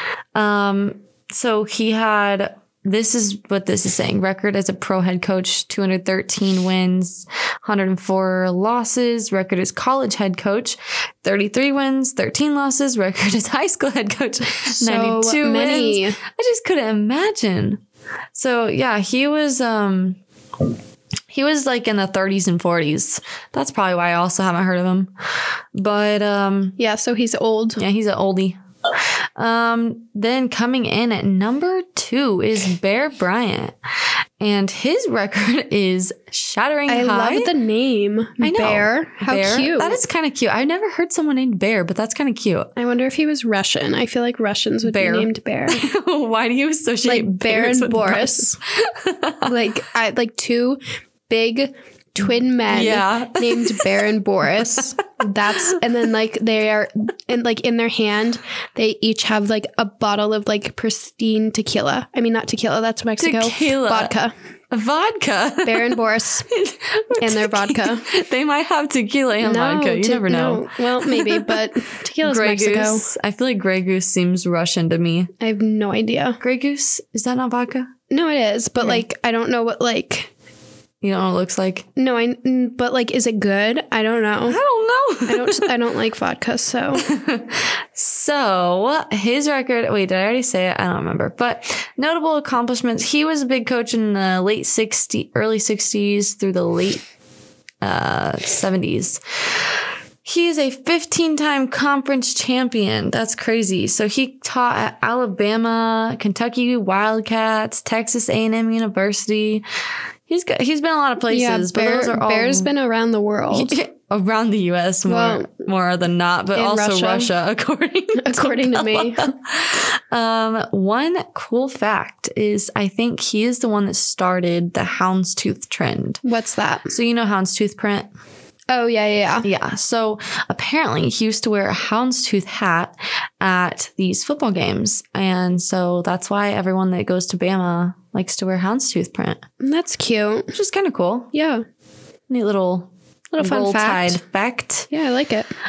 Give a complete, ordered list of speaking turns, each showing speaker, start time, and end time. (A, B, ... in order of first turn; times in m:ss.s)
0:00.4-0:17.8 A
0:14.7-0:16.2 B
0:18.3-0:20.2 A
0:21.3-0:25.1 A
0:25.7-0:26.8 A
0:26.8-0:27.8 B
0:27.8-0:33.8 A
0:34.4-0:37.5 A
0:36.9-0:40.0 B
0:38.4-0:42.7 A
0:42.8-0:45.8 B
0:44.8-0:49.5 A
0:47.0-0:48.6 B
0:49.4-1:04.3 B
0:52.7-0:54.1 A
1:03.2-1:04.1 A
1:04.7-1:11.7 A
1:05.6-1:06.5 B
1:07.2-1:08.1 B
1:09.4-1:13.1 B
1:12.2-1:15.3 A
1:15.4-1:16.4 B
1:16.4-1:17.9 A
1:18.1-1:20.3 B
1:21.0-1:21.9 A
1:22.0-1:24.6 B
1:24.5-1:25.7 A
1:25.3-1:27.1 B
1:27.0-1:37.0 A
1:37.8-1:49.6 A
1:50.3-1:52.7 A
1:51.3-1:53.8 B
1:53.5-2:06.2 A
1:55.1-1:55.5 B
1:56.6-1:57.3 B
1:58.2-1:59.3 B
2:06.2-2:06.9 B
2:06.9-2:08.1 A
2:08.7-2:09.5 B
2:09.4-2:19.4 A
2:19.6-2:20.6 B
2:20.5-2:21.3 A
2:21.3-2:21.6 B
2:22.3-2:24.9 A
2:23.3-2:24.2 B
2:24.9-2:25.5 B